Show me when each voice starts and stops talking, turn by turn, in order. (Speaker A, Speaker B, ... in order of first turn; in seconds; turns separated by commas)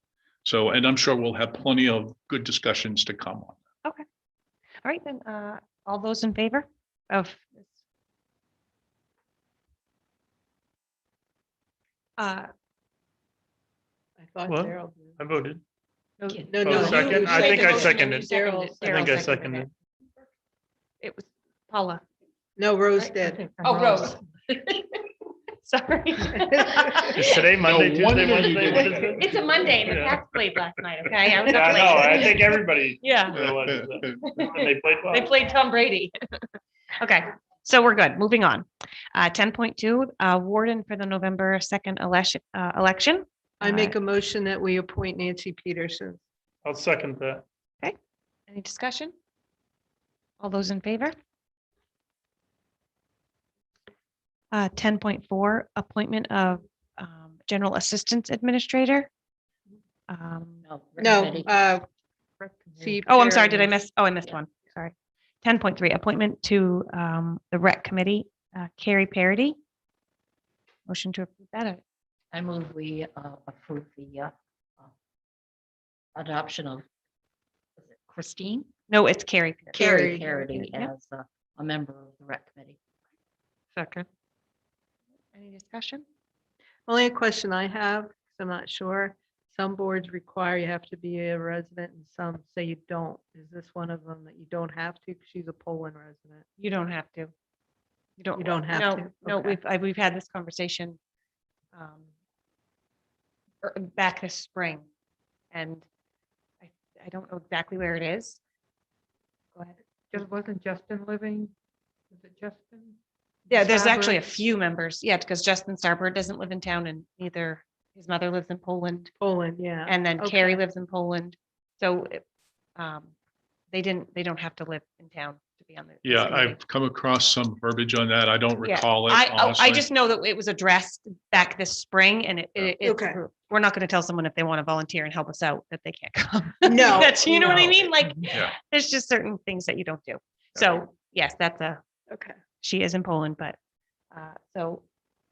Speaker A: 0.5-3.6, Speaker B: 4.8-7.8, Speaker B: 12.2-12.5, Speaker C: 14.2-15.2, Speaker D: 14.5-15.6, Speaker B: 16.2-19.7, Speaker E: 16.3-16.8, Speaker C: 16.5-19.1, Speaker D: 16.6-18.3, Speaker D: 18.8-19.7, Speaker B: 21.0-22.0, Speaker C: 22.6-23.4, Speaker B: 23.0-24.2, Speaker F: 23.4-23.9, Speaker E: 23.9-24.2, Speaker B: 25.6-27.4, Speaker D: 27.1-30.2, Speaker A: 27.6-29.5, Speaker B: 29.2-32.4, Speaker D: 31.3-35.3, Speaker B: 33.0-33.4, Speaker A: 33.4-34.0, Speaker B: 34.2-36.1, Speaker B: 37.0-44.0, Speaker C: 43.6-46.2, Speaker D: 46.6-47.4, Speaker B: 48.5-49.1, Speaker B: 50.4-51.2, Speaker B: 54.5-59.1, Speaker B: 60.1-60.6, Speaker E: 60.6-61.6, Speaker C: 61.0-61.9, Speaker F: 62.4-63.0, Speaker C: 62.8-63.8, Speaker B: 63.1-69.6, Speaker B: 70.9-71.8, Speaker E: 72.3-74.9, Speaker E: 76.2-76.9, Speaker E: 77.8-78.7, Speaker B: 78.9-79.9, Speaker C: 79.8-80.5, Speaker E: 79.8-82.8, Speaker B: 80.6-80.9, Speaker F: 83.8-84.1, Speaker B: 85.3-86.0, Speaker C: 86.9-96.5, Speaker B: 96.6-97.3, Speaker B: 98.2-101.0, Speaker C: 98.3-99.6, Speaker B: 101.7-102.1, Speaker B: 103.6-104.9, Speaker B: 105.5-105.9, Speaker B: 106.6-108.4, Speaker F: 110.1-111.5, Speaker F: 112.1-114.2, Speaker B: 113.5-119.1, Speaker C: 119.2-120.6, Speaker B: 119.9-122.2, Speaker B: 122.8-123.1, Speaker B: 123.7-126.6, Speaker A: 126.0-129.9, Speaker B: 128.6-141.8, Speaker C: 132.8-133.2, Speaker C: 136.7-137.8, Speaker C: 142.1-142.3, Speaker B: 142.6-143.6, Speaker B: 144.1-144.8